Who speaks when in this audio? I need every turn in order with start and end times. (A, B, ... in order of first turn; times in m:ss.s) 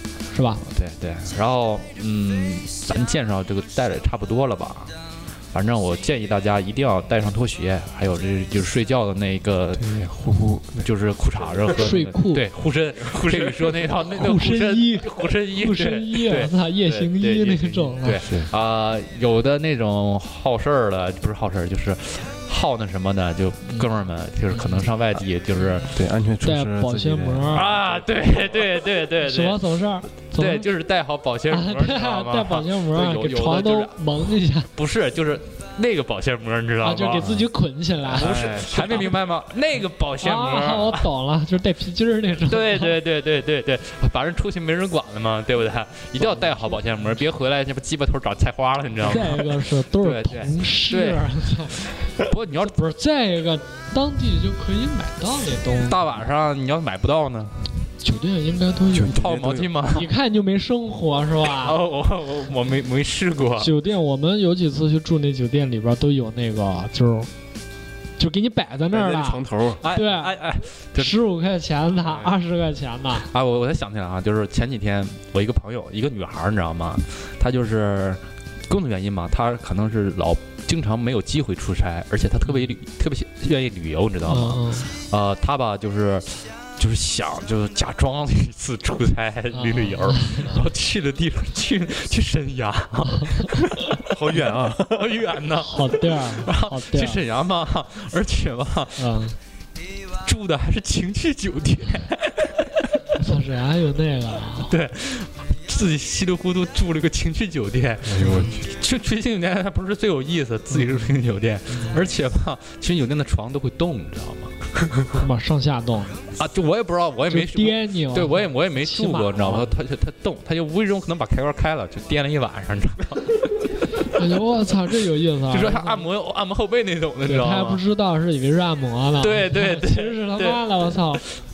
0:00.3-0:00.6 A
0:00.6-0:04.9 B
0:05.5-0:09.9 B
0:09.8-0:10.9 C
0:10.8-0:25.9 B
0:11.8-0:12.4 A
0:14.1-0:18.2 A
0:18.2-0:18.5 C
0:24.5-0:24.8 A
0:25.9-0:28.0 C
0:26.4-0:27.7 A
0:27.5-0:29.6 B
0:29.2-0:30.7 A
0:30.3-0:37.4 B
0:31.5-0:34.7 A
0:36.8-0:38.4 A
0:38.1-0:39.2 C
0:38.1-0:41.0 B
0:40.2-0:43.0 A
0:42.5-0:51.3 B
0:46.2-0:47.0 A
0:49.0-0:56.1 A
0:52.0-0:52.8 B
0:55.8-0:57.8 B
0:58.0-0:59.2 A
0:58.9-0:59.7 C
0:59.0-1:00.1 B
0:59.9-1:01.8 A
1:01.6-1:03.7 B
1:03.6-1:07.3 A
1:08.2-1:10.3 A
1:08.9-1:09.8 C
1:09.8-1:11.1 B
1:11.0-1:13.3 A
1:13.3-1:34.0 B
1:24.3-1:24.9 A
1:29.5-1:30.6 A
1:34.1-1:35.2 C
1:34.8-1:39.3 B
1:35.6-1:37.2 A
1:39.0-1:39.3 A
1:40.2-1:43.0 B
1:43.1-1:44.7 A
1:44.6-1:54.6 B
1:48.0-1:48.6 C
1:48.2-1:48.5 A
1:50.8-1:51.1 A
1:51.7-1:52.0 A
1:55.1-1:56.2 A
1:56.3-2:03.7 B
1:57.3-1:59.7 A
2:04.0-2:06.0 A
2:05.5-2:07.8 B
2:07.2-2:11.2 A
2:09.2-2:11.3 B